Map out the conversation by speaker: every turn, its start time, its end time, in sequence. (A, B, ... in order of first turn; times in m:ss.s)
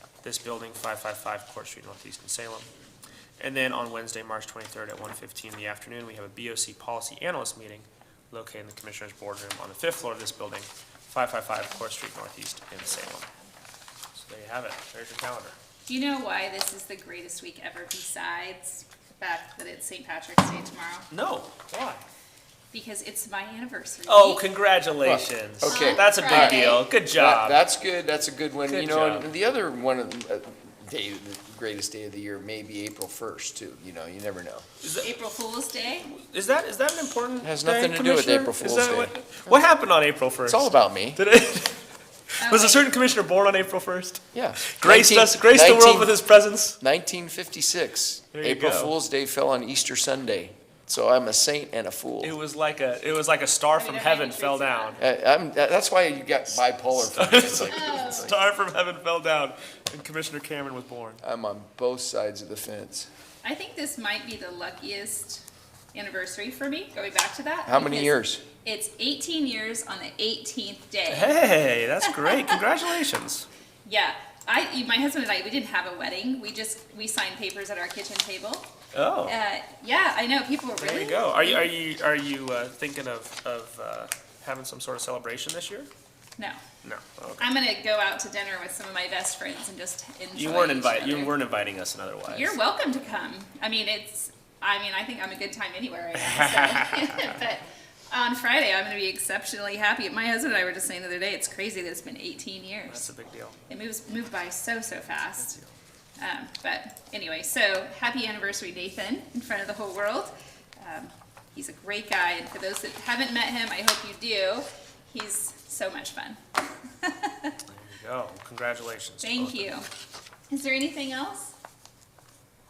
0:00.2-0:02.7 A
0:03.4-0:13.3 A
0:13.0-0:13.5 B
0:14.2-0:15.6 A
0:15.9-0:21.1 B
0:21.1-0:22.0 A
0:22.7-0:24.5 B
0:24.1-0:27.6 A
0:25.0-0:34.7 C
0:25.6-0:26.9 B
0:28.7-0:29.3 A
0:34.8-0:35.1 A
0:35.0-0:36.1 B
0:36.1-0:41.8 A
0:37.4-0:39.6 C
0:40.5-0:41.2 C
0:42.4-0:46.8 A
0:42.4-0:42.9 B
0:44.3-0:46.2 C
0:46.8-0:52.4 C
0:48.3-0:49.0 A
0:52.2-0:55.0 A
0:53.7-0:55.0 B
0:55.0-0:58.4 C
0:57.0-1:01.2 A
0:57.7-0:58.3 B
1:01.2-1:03.1 C
1:03.4-1:05.4 B
1:05.9-1:11.4 B
1:07.7-1:08.4 C
1:11.1-1:13.5 A
1:12.0-1:12.6 B
1:13.8-1:18.7 B
1:18.9-1:19.4 A
1:19.3-1:21.7 B
1:20.8-1:25.9 A
1:26.8-1:27.5 A
1:27.4-1:31.4 B
1:30.4-1:32.6 A
1:32.3-1:43.1 B
1:36.2-1:37.4 A
1:42.9-1:43.6 A
1:43.7-1:45.6 B
1:46.2-1:57.6 B
1:57.7-1:59.8 A
1:59.2-1:59.9 B
2:00.5-2:01.5 B